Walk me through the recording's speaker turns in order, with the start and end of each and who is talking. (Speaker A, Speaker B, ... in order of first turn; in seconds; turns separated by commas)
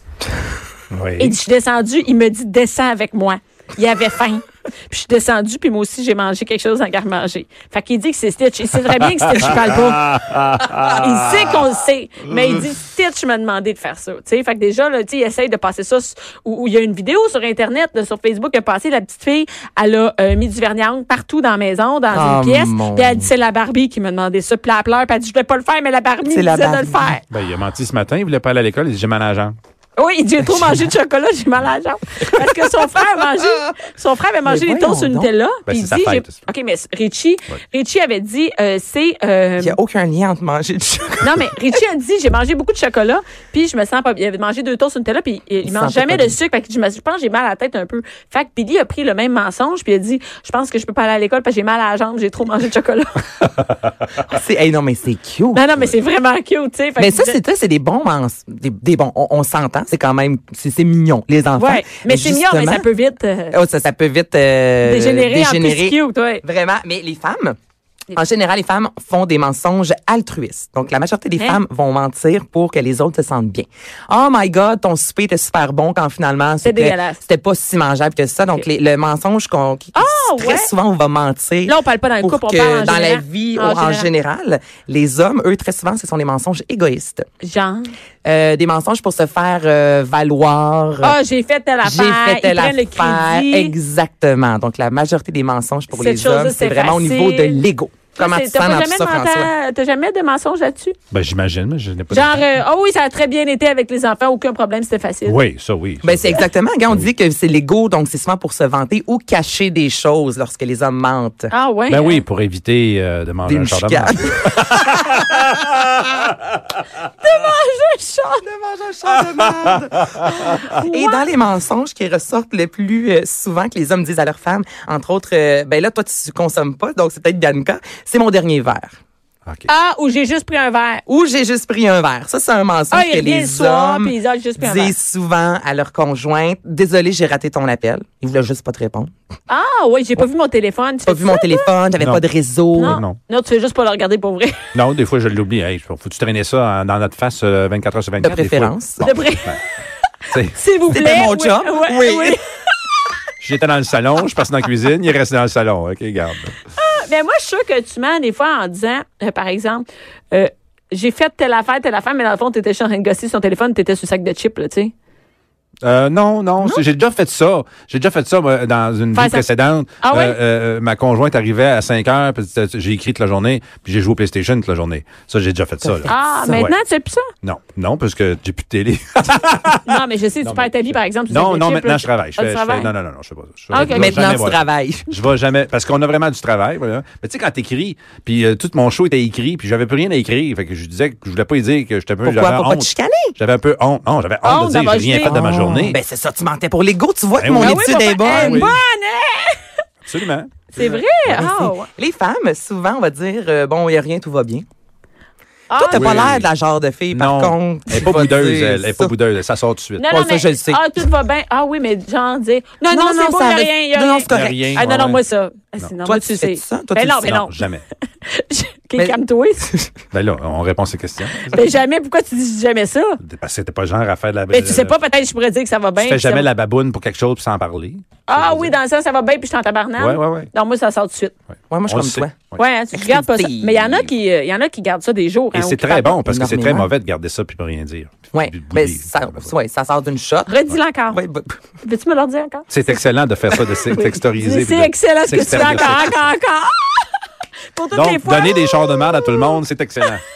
Speaker A: 0.9-1.4, Speaker B: 1.2-10.2, Speaker A: 9.2-11.1, Speaker B: 10.9-27.2, Speaker C: 22.1-23.3, Speaker C: 26.3-27.2, Speaker A: 27.3-29.6, Speaker B: 30.0-39.8, Speaker C: 34.5-35.3, Speaker A: 35.7-36.4, Speaker C: 39.6-41.5, Speaker B: 41.2-53.2, Speaker C: 45.6-46.4, Speaker C: 54.3-55.6, Speaker B: 55.5-57.4, Speaker C: 57.0-62.8, Speaker B: 61.6-63.5, Speaker C: 63.5-67.6, Speaker B: 64.8-66.4, Speaker C: 68.1-87.3, Speaker B: 76.6-77.2, Speaker B: 79.9-80.7, Speaker B: 81.7-84.1, Speaker B: 87.4-87.9, Speaker C: 88.2-91.2, Speaker B: 91.0-93.7, Speaker C: 91.8-99.5, Speaker B: 95.9-97.6, Speaker B: 98.2-101.0, Speaker A: 101.1-102.5, Speaker B: 102.1-105.4, Speaker A: 105.3-107.1, Speaker C: 106.0-111.5, Speaker B: 111.5-112.2, Speaker A: 111.9-115.6, Speaker C: 113.5-115.0, Speaker B: 117.2-118.4, Speaker C: 118.4-128.9, Speaker A: 119.3-119.7, Speaker B: 120.3-121.3, Speaker B: 129.7-131.0, Speaker C: 131.1-139.1, Speaker B: 132.9-134.9, Speaker B: 139.5-141.7, Speaker C: 141.1-143.0, Speaker A: 142.8-143.2, Speaker B: 142.8-144.7, Speaker A: 144.8-149.6, Speaker C: 148.2-149.1, Speaker B: 149.0-149.5, Speaker A: 150.3-150.6, Speaker B: 150.5-152.4, Speaker C: 150.9-152.4, Speaker A: 153.4-156.6, Speaker B: 156.8-164.9, Speaker A: 165.8-176.8, Speaker B: 169.1-169.4, Speaker B: 170.0-170.4, Speaker C: 175.8-176.6, Speaker B: 176.1-177.3, Speaker A: 177.4-196.0, Speaker B: 179.8-182.9, Speaker B: 183.7-184.4, Speaker C: 183.9-185.1, Speaker C: 192.2-193.3, Speaker B: 194.4-195.4, Speaker C: 195.2-198.7, Speaker A: 197.4-198.8, Speaker B: 197.6-199.6, Speaker A: 200.1-200.6, Speaker B: 200.7-201.9, Speaker C: 200.8-204.7, Speaker B: 205.7-206.3, Speaker A: 205.8-206.5, Speaker C: 205.9-209.1, Speaker A: 207.1-210.2, Speaker B: 210.0-217.6, Speaker C: 210.1-210.8, Speaker C: 212.9-214.8, Speaker A: 214.3-215.2, Speaker C: 216.0-217.2, Speaker A: 217.2-217.8, Speaker B: 218.3-219.7, Speaker C: 219.0-219.9, Speaker A: 220.1-221.8, Speaker B: 221.5-223.2, Speaker A: 223.2-225.0, Speaker B: 224.5-226.5, Speaker A: 226.0-228.8, Speaker B: 228.3-231.3, Speaker A: 230.0-230.5, Speaker C: 231.7-232.3, Speaker A: 231.8-232.6, Speaker B: 232.6-236.2, Speaker C: 232.9-233.8, Speaker A: 235.5-239.5, Speaker C: 236.3-236.9, Speaker C: 238.3-240.5, Speaker B: 240.5-241.2, Speaker C: 241.1-241.6, Speaker B: 241.8-242.7, Speaker A: 242.7-246.3, Speaker B: 243.7-247.1, Speaker B: 247.7-249.6, Speaker A: 247.9-250.2